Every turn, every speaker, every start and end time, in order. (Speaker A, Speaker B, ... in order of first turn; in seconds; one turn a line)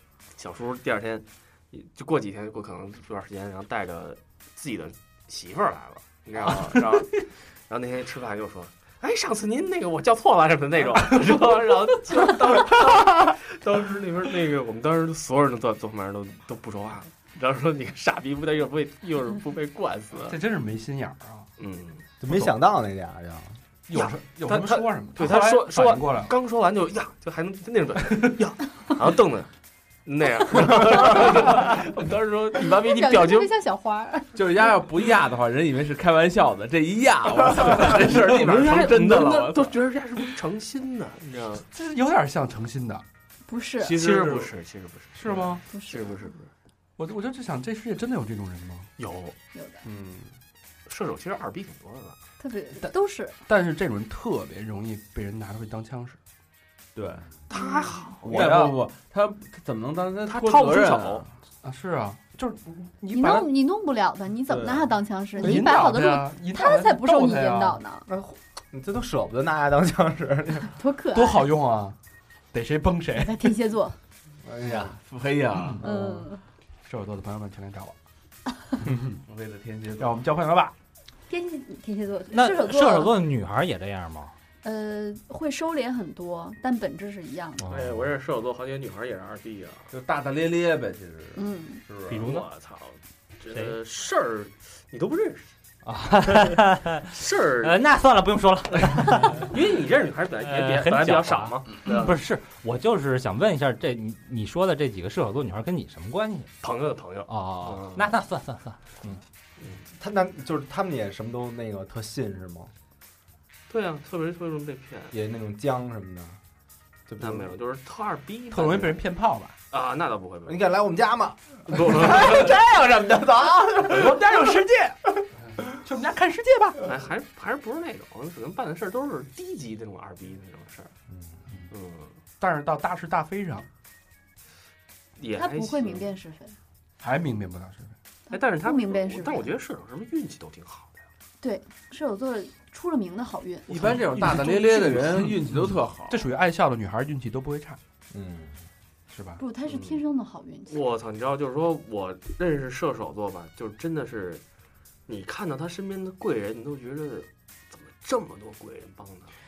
Speaker A: 0.3-20.4
Speaker B: 20.2-21.5
Speaker A: 21.6-22.1
Speaker C: 22.2-23.6
Speaker B: 23.9-26.3
Speaker A: 23.9-29.5
Speaker A: 30.1-33.5
Speaker D: 32.7-34.7
Speaker E: 34.3-39.8
Speaker A: 37.9-41.6
Speaker B: 41.6-43.0
Speaker D: 43.5-44.0
Speaker E: 43.8-44.5
Speaker A: 43.9-46.5
Speaker B: 45.1-45.6
Speaker D: 45.7-46.3
Speaker B: 47.0-48.9
Speaker A: 49.0-49.4
Speaker D: 49.5-49.8
Speaker E: 49.8-50.4
Speaker A: 50.9-52.2
Speaker D: 52.4-53.4
Speaker B: 53.4-56.2
Speaker E: 56.9-57.4
Speaker A: 57.5-58.5
Speaker D: 57.5-58.1
Speaker B: 58.2-58.8
Speaker E: 58.2-61.3
Speaker A: 60.2-61.2
Speaker B: 61.6-63.5
Speaker D: 63.1-68.1
Speaker E: 64.5-64.9
Speaker B: 65.4-67.8
Speaker C: 68.1-70.7
Speaker D: 70.7-71.5
Speaker B: 71.1-72.0
Speaker B: 72.5-73.5
Speaker D: 73.1-74.0
Speaker C: 74.4-75.0
Speaker E: 74.7-75.9
Speaker C: 75.8-76.1
Speaker D: 75.8-76.4
Speaker B: 76.8-77.9
Speaker B: 78.9-79.2
Speaker E: 79.2-80.2
Speaker B: 80.0-80.7
Speaker D: 81.3-83.1
Speaker F: 82.3-84.3
Speaker D: 84.6-87.6
Speaker F: 87.6-88.0
Speaker A: 87.7-89.9
Speaker E: 89.9-92.3
Speaker D: 91.3-91.8
Speaker F: 92.1-92.5
Speaker A: 92.1-95.5
Speaker F: 93.5-93.8
Speaker F: 95.8-99.5
Speaker A: 97.0-97.8
Speaker A: 99.3-102.2
Speaker F: 100.4-106.5
Speaker A: 106.6-108.1
Speaker F: 107.3-108.8
Speaker C: 109.9-112.7
Speaker A: 113.7-115.1
Speaker C: 115.1-116.4
Speaker C: 117.1-117.5
Speaker A: 117.2-119.0
Speaker B: 118.5-119.5
Speaker A: 119.7-120.7
Speaker C: 120.5-124.2
Speaker A: 121.7-122.5
Speaker B: 123.8-126.9
Speaker A: 126.8-130.9
Speaker C: 131.1-131.4
Speaker A: 131.7-132.2
Speaker B: 132.4-133.7
Speaker A: 135.2-136.1
Speaker D: 135.3-136.6
Speaker B: 137.0-137.9
Speaker D: 138.3-139.5
Speaker A: 138.3-141.0
Speaker D: 141.4-143.9
Speaker E: 143.7-146.3
Speaker B: 143.7-147.8
Speaker C: 148.1-148.6
Speaker B: 149.1-149.4
Speaker D: 149.4-150.8
Speaker A: 149.7-150.0
Speaker A: 150.7-154.4
Speaker A: 155.1-159.3